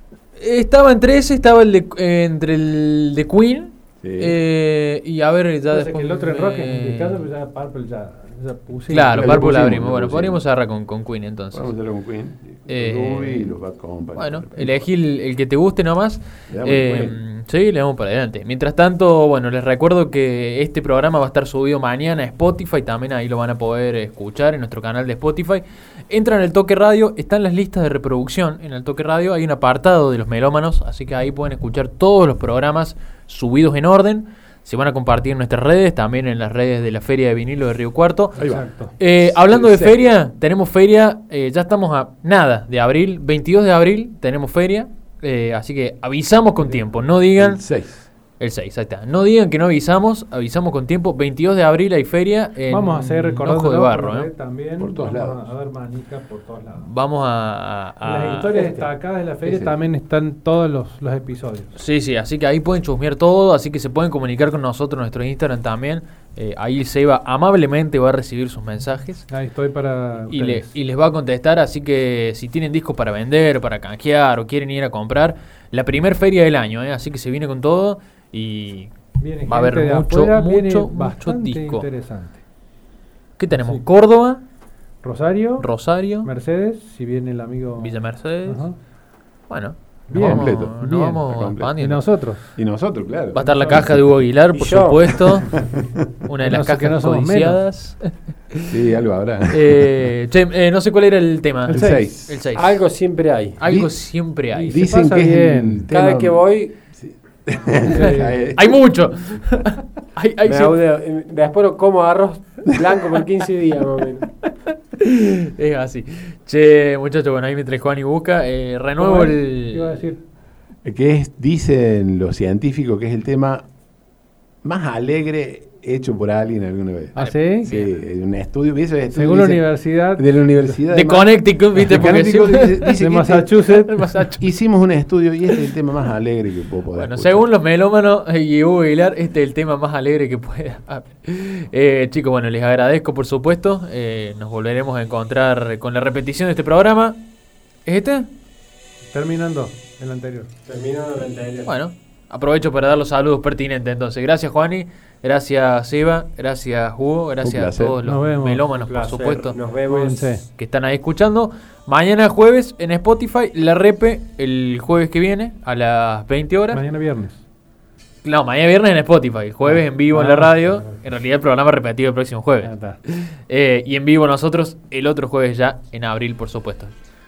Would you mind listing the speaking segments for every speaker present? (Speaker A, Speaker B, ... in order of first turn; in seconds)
Speaker A: 0.3-7.2, 8.9-11.7, 12.7-13.5, 14.2-47.7, 48.4-54.3, 56.8-58.9, 61.7-69.3, 70.3-81.9, 83.4-84.4, 85.6-86.3, 87.8-88.7, 89.5-92.2, 93.3-98.7, 99.5-102.8, 103.6-104.9, 108.5-110.8, 114.4-120.0, 127.2-128.0, 130.9-133.0, 133.6-134.4, 136.9-147.2, 147.8-148.3, 151.6-159.6, 160.6-166.8, 168.2-176.9
Speaker B: 4.0-4.4, 9.1-10.4, 11.5-14.9, 16.5-17.2, 38.4-40.0, 47.4-48.1, 54.8-55.4, 59.4-59.8, 90.1-93.8, 98.7-99.9, 101.7-102.3, 103.7-103.9, 104.7-108.7, 120.8-123.7, 124.6-133.6, 134.4-137.4, 157.4-158.0
Speaker C: 5.7-9.4, 38.4-38.9, 52.7-56.9, 58.0-61.7, 69.3-70.7, 79.2-82.4, 85.0-88.8, 90.1-91.1, 91.8-92.5, 93.3-93.9, 96.4-97.6, 101.7-102.1, 104.5-105.8, 107.9-108.3, 119.0-120.2, 127.2-127.7, 129.1-130.7, 132.9-134.1, 149.1-150.5, 158.0-158.6, 159.9-160.4, 166.7-167.4, 169.6-170.9, 172.6-173.0
Speaker D: 94.5-95.4, 102.5-103.6, 105.9-106.7, 110.4-114.3, 150.7-151.7, 158.8-160.3